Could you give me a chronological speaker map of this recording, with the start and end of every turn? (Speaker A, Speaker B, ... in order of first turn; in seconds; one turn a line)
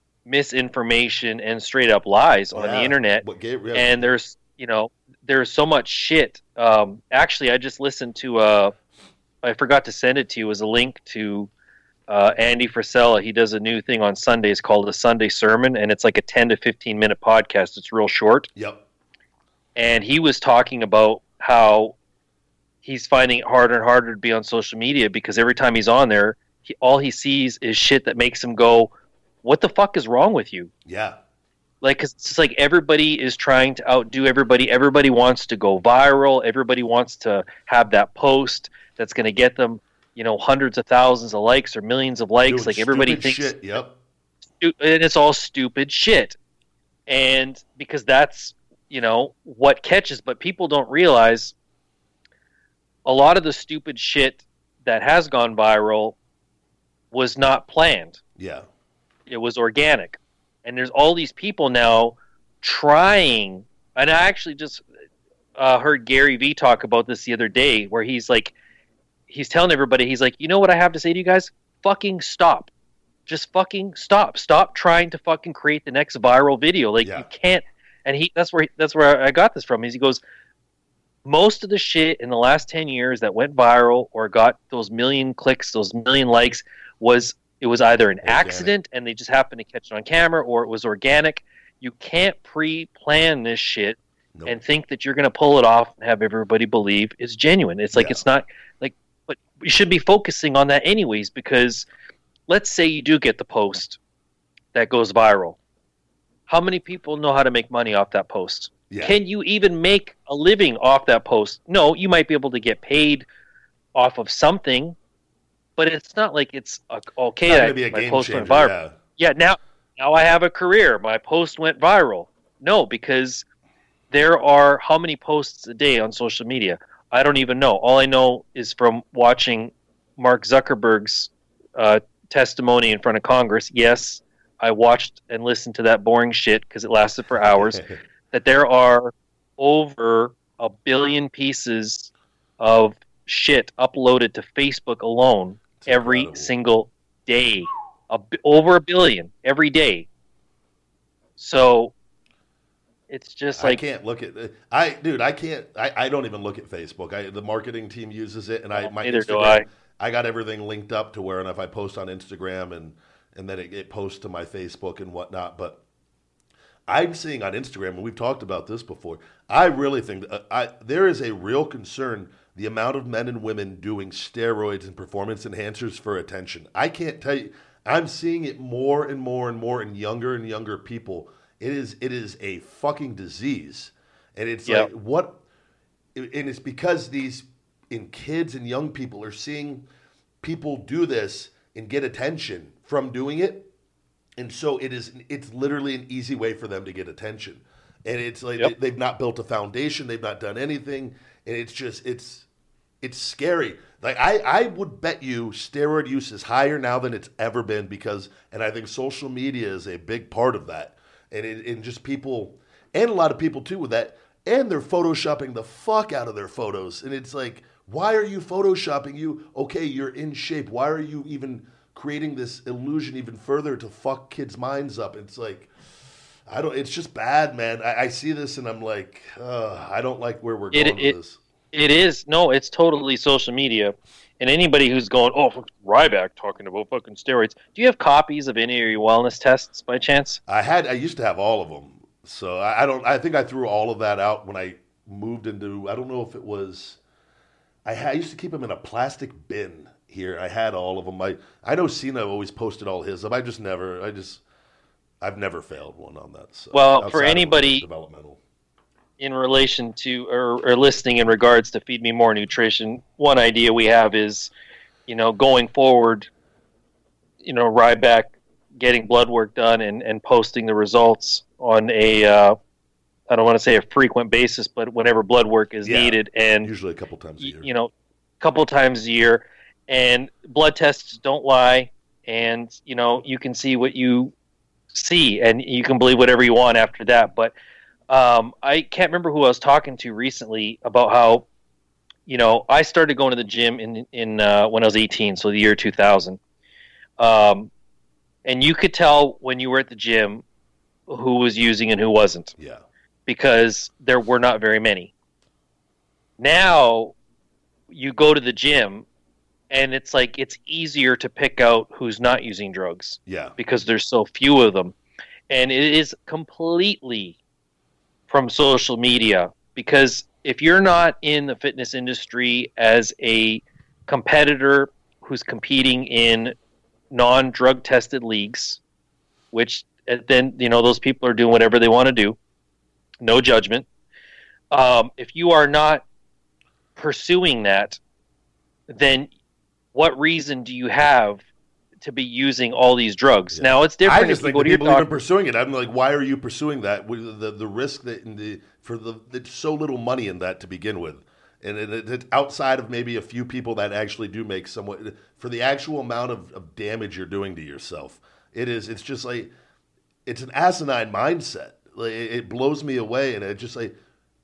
Speaker A: 0.3-8.7
Speaker B: 2.5-4.1
Speaker A: 9.4-11.5
Speaker A: 12.1-18.5
Speaker B: 18.6-18.8
Speaker A: 19.8-21.9
Speaker A: 22.8-28.9
Speaker A: 29.4-30.7
Speaker B: 30.9-31.2
Speaker A: 31.8-43.5
Speaker B: 42.5-44.0
Speaker A: 44.6-46.4
Speaker A: 47.1-51.5
Speaker A: 53.0-56.2
Speaker A: 57.1-58.2
Speaker B: 58.4-58.7
Speaker A: 59.3-64.9
Speaker A: 65.6-68.5
Speaker A: 69.3-72.7
Speaker A: 73.3-80.2
Speaker A: 81.2-101.9
Speaker B: 88.2-88.7
Speaker B: 97.9-98.2
Speaker A: 102.5-104.0
Speaker A: 104.7-105.6
Speaker A: 106.5-113.3
Speaker B: 108.9-109.2
Speaker A: 114.0-115.0
Speaker A: 115.8-123.5
Speaker B: 117.5-119.0
Speaker A: 124.1-137.8
Speaker B: 137.6-138.0
Speaker A: 138.3-150.1
Speaker B: 145.8-146.5
Speaker A: 151.4-151.9
Speaker A: 153.1-153.8
Speaker B: 153.6-165.8
Speaker A: 158.8-159.7
Speaker B: 166.9-185.4
Speaker B: 186.2-189.9
Speaker B: 190.4-193.7
Speaker B: 194.4-202.5
Speaker B: 203.0-225.7
Speaker B: 226.5-231.4
Speaker A: 230.7-231.2
Speaker A: 231.7-240.4
Speaker B: 240.5-247.0
Speaker B: 247.8-254.4
Speaker B: 255.2-258.4
Speaker A: 256.7-257.9
Speaker A: 259.2-264.5
Speaker A: 265.1-266.3
Speaker A: 267.4-272.6
Speaker A: 273.3-276.7
Speaker B: 275.9-277.7
Speaker A: 277.4-284.3
Speaker A: 284.9-287.5
Speaker A: 288.1-291.5
Speaker A: 292.3-296.4
Speaker A: 297.2-297.7
Speaker A: 298.4-300.4
Speaker A: 301.1-302.5
Speaker B: 302.6-302.8
Speaker A: 303.3-305.1
Speaker A: 306.4-307.1
Speaker A: 307.9-309.1
Speaker A: 309.7-314.9
Speaker B: 313.3-313.6
Speaker A: 315.5-317.4
Speaker A: 318.3-326.6
Speaker A: 327.1-328.8
Speaker A: 329.5-332.4
Speaker A: 333.2-333.9
Speaker A: 334.7-336.0
Speaker A: 337.0-338.0
Speaker A: 338.9-339.3
Speaker A: 339.9-341.4
Speaker A: 342.0-345.1
Speaker B: 343.5-359.5
Speaker B: 360.3-363.9